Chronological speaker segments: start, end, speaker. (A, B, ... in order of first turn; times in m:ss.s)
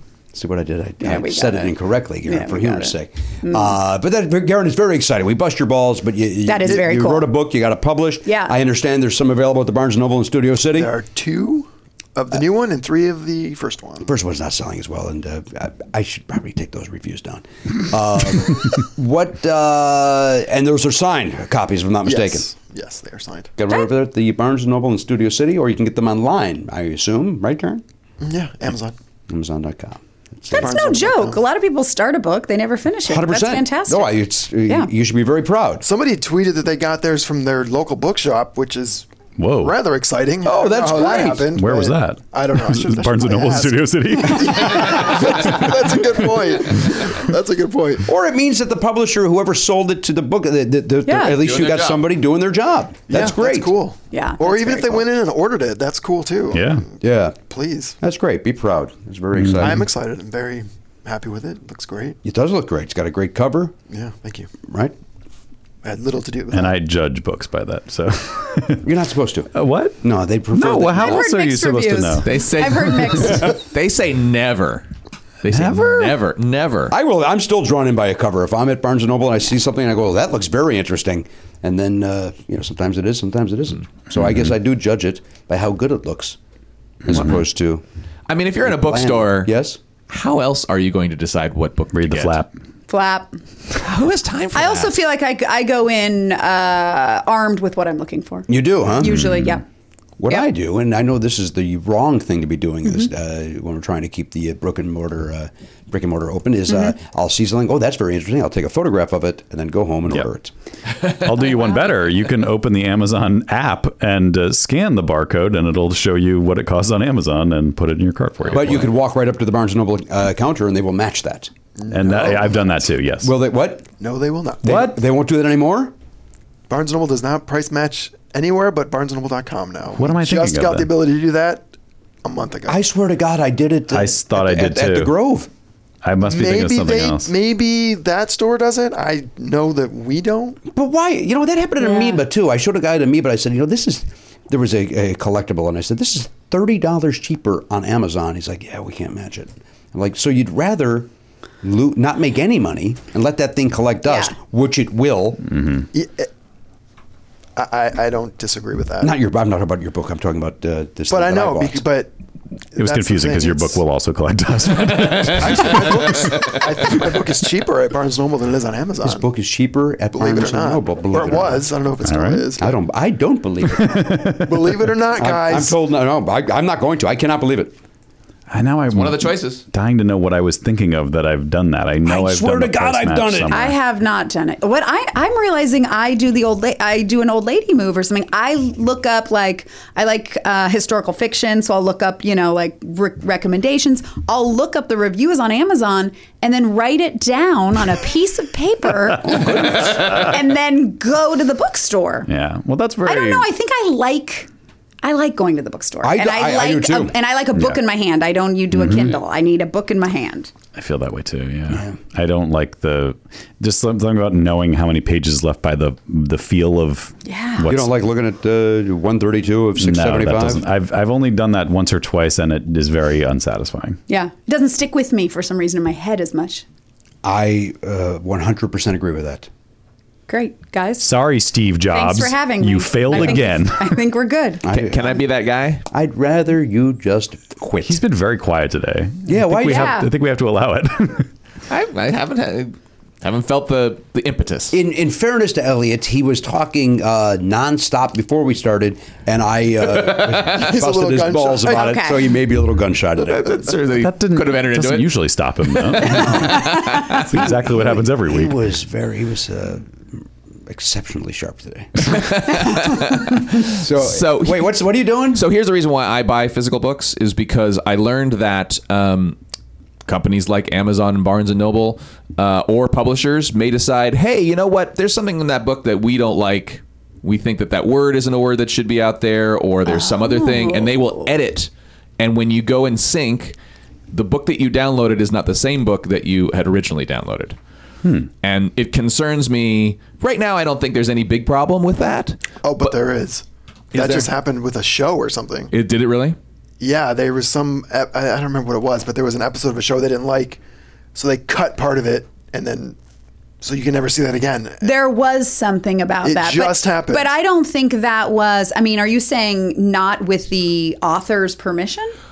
0:00.3-0:10.9 A
0:01.0-0:03.7 B
0:06.4-0:07.3 B
0:08.2-0:08.5 B
0:10.7-0:14.1 C
0:14.0-0:22.5 A
0:22.0-0:23.5 C
0:23.6-0:27.8 A
0:28.2-0:28.9 C
0:29.3-0:30.8 A
0:30.5-0:34.9 B
0:30.6-0:31.4 C
0:33.0-0:35.8 A
0:35.8-0:39.1 C
0:39.4-0:39.8 D
0:39.6-0:48.0 C
0:40.4-0:41.6 A
0:41.5-0:45.3 D
0:48.0-0:53.8 A
0:51.0-0:51.4 B
0:51.4-0:52.0 E
0:53.1-0:58.0 C
0:54.1-0:54.6 B
0:54.6-0:55.0 A
0:56.5-0:56.9 D
0:57.0-0:57.4 A
0:58.0-0:59.8 A
0:59.3-0:59.8 D
0:59.6-1:02.2 C
1:02.2-1:03.7 A
1:03.9-1:04.5 C
1:04.7-1:04.9 A
1:05.8-1:06.7 C
1:06.5-1:08.8 D
1:08.8-1:11.2 A
1:09.5-1:12.4 D
1:11.0-1:13.6 B
1:12.2-1:14.9 E
1:15.4-1:16.9 E
1:15.5-1:16.2 D
1:16.9-1:26.4 A
1:27.0-1:27.8 A
1:27.1-1:27.4 D
1:28.3-1:29.5 E
1:28.6-1:29.8 A
1:30.1-1:32.4 E
1:31.9-1:32.6 D
1:32.9-1:33.4 B
1:33.7-1:34.9 E
1:34.5-1:39.6 B
1:38.5-1:39.3 A
1:39.1-1:39.6 D
1:40.2-1:50.5 A
1:46.7-1:46.9 B
1:51.1-1:59.0 D
1:58.5-2:01.5 A
2:01.8-2:02.6 C
2:01.9-2:03.3 D
2:03.2-2:03.8 A
2:04.0-2:04.8 C
2:04.6-2:05.9 A
2:04.6-2:05.0 D
2:06.7-2:11.7 C
2:10.0-2:10.9 D
2:12.2-2:12.8 C
2:12.7-2:15.5 A
2:13.9-2:15.1 D
2:16.0-2:17.3 D
2:16.2-2:20.6 C
2:20.7-2:31.1 A
2:21.8-2:22.2 B
2:31.6-2:35.5 A
2:34.1-2:34.3 B
2:35.5-2:35.9 D
2:35.9-2:36.3 C
2:37.6-2:39.1 C
2:39.0-2:41.8 A
2:41.1-2:42.1 C
2:42.7-2:43.8 C
2:42.8-2:46.4 D
2:45.3-2:49.3 C
2:49.0-2:51.7 A
2:50.1-2:52.8 C
2:52.0-2:52.5 D
2:52.6-2:54.1 A
2:53.7-2:54.9 D
2:54.4-2:55.7 C
2:55.1-2:57.7 A
2:58.5-3:03.8 D
2:58.9-2:59.6 E
3:02.0-3:03.6 A
3:03.5-3:22.3 B
3:19.2-3:20.2 A
3:22.3-3:23.5 D
3:23.0-3:24.5 B
3:25.0-3:30.5 B
3:26.0-3:27.2 A
3:28.8-3:29.1 D
3:30.7-3:37.9 D
3:31.7-3:32.0 A
3:37.2-3:37.7 B
3:37.7-3:40.6 A
3:39.8-3:44.0 D
3:44.1-3:46.6 B
3:47.2-3:49.5 A
3:50.3-3:51.1 B
3:51.0-3:54.0 D
3:51.9-3:54.7 B
3:54.6-3:55.2 A
3:54.7-3:55.8 E
3:55.9-3:58.0 A
3:57.8-4:01.3 D
3:59.2-4:00.0 A
3:59.6-4:00.1 B
4:01.7-4:04.7 E
4:04.7-4:13.7 A
4:10.2-4:12.0 C
4:11.7-4:12.2 B
4:13.2-4:15.1 E
4:14.0-4:18.6 D
4:16.1-4:16.6 A
4:16.7-4:17.2 E
4:17.3-4:22.5 A
4:22.0-4:24.7 E
4:23.7-4:25.4 A
4:25.3-4:29.4 E
4:30.0-4:43.6 E
4:39.8-4:41.3 B
4:44.1-4:47.6 E
4:48.0-4:48.3 D
4:48.4-4:53.0 E
4:52.6-4:55.7 C
4:53.9-4:54.3 E
4:55.7-4:56.4 E
4:56.8-5:00.6 C
5:01.1-5:03.0 C
5:03.6-5:04.9 C
5:04.8-5:12.1 B
5:06.2-5:07.3 C